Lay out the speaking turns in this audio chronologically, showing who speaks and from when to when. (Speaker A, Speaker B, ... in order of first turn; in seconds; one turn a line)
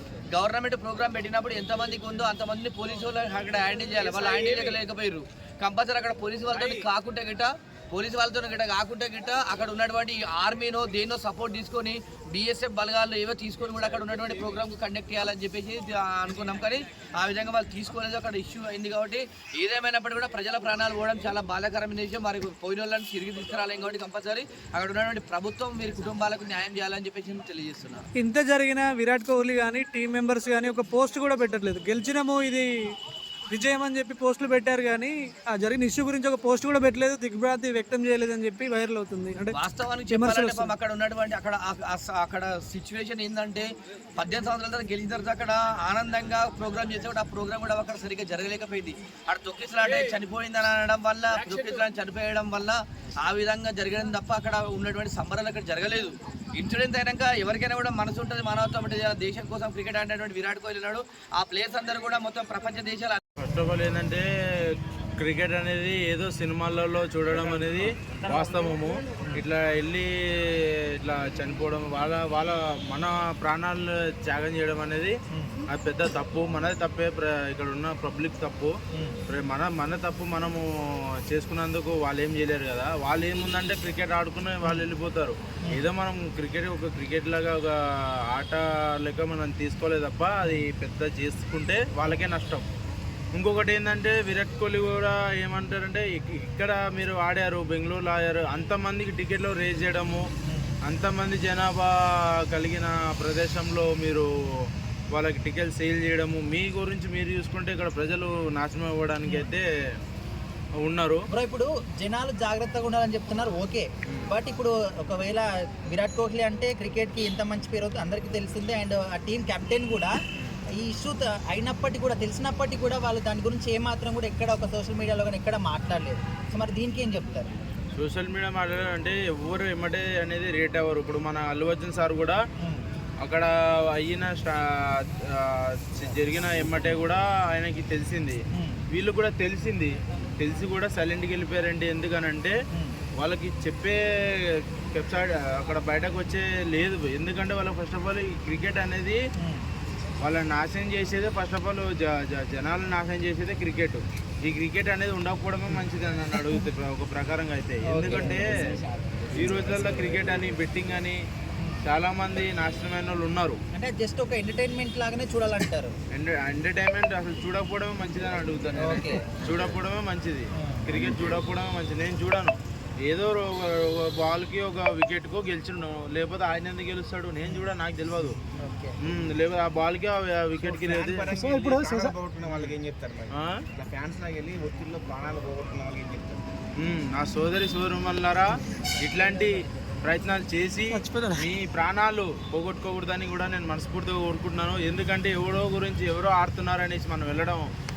Speaker A: 0.3-28.0
Speaker B: 28.2-32.7
Speaker B: 33.5-39.6
Speaker A: 39.5-43.7
Speaker B: 40.1-40.7
Speaker A: 44.2-63.2
Speaker C: 63.4-64.2
Speaker C: 65.2-70.1
Speaker C: 71.0-75.2
Speaker D: 75.3-75.6
Speaker C: 75.7-78.7
Speaker D: 78.9-79.2
Speaker C: 79.3-80.6
Speaker C: 81.3-87.7
Speaker C: 88.3-92.6
Speaker C: 93.4-100.2
Speaker D: 100.5-100.8
Speaker C: 100.9-101.9
Speaker C: 102.5-109.7
Speaker C: 110.8-111.2
Speaker D: 111.3-120.2
Speaker D: 120.7-127.6
Speaker C: 128.0-132.4
Speaker D: 132.6-132.9
Speaker C: 134.0-138.4
Speaker D: 138.5-138.8
Speaker C: 138.9-142.6
Speaker D: 142.7-143.0
Speaker C: 143.2-144.0
Speaker C: 144.9-149.2
Speaker C: 150.2-158.5
Speaker D: 157.9-158.8
Speaker C: 159.4-161.2
Speaker D: 159.4-160.1
Speaker C: 161.8-163.6
Speaker D: 163.7-165.9
Speaker C: 166.1-178.4
Speaker D: 168.8-169.6
Speaker D: 170.6-171.1
Speaker D: 178.6-179.0
Speaker C: 179.0-181.4
Speaker E: 180.6-186.4
Speaker B: 181.3-182.1
Speaker C: 182.4-182.8
Speaker C: 186.8-197.7
Speaker B: 190.9-191.5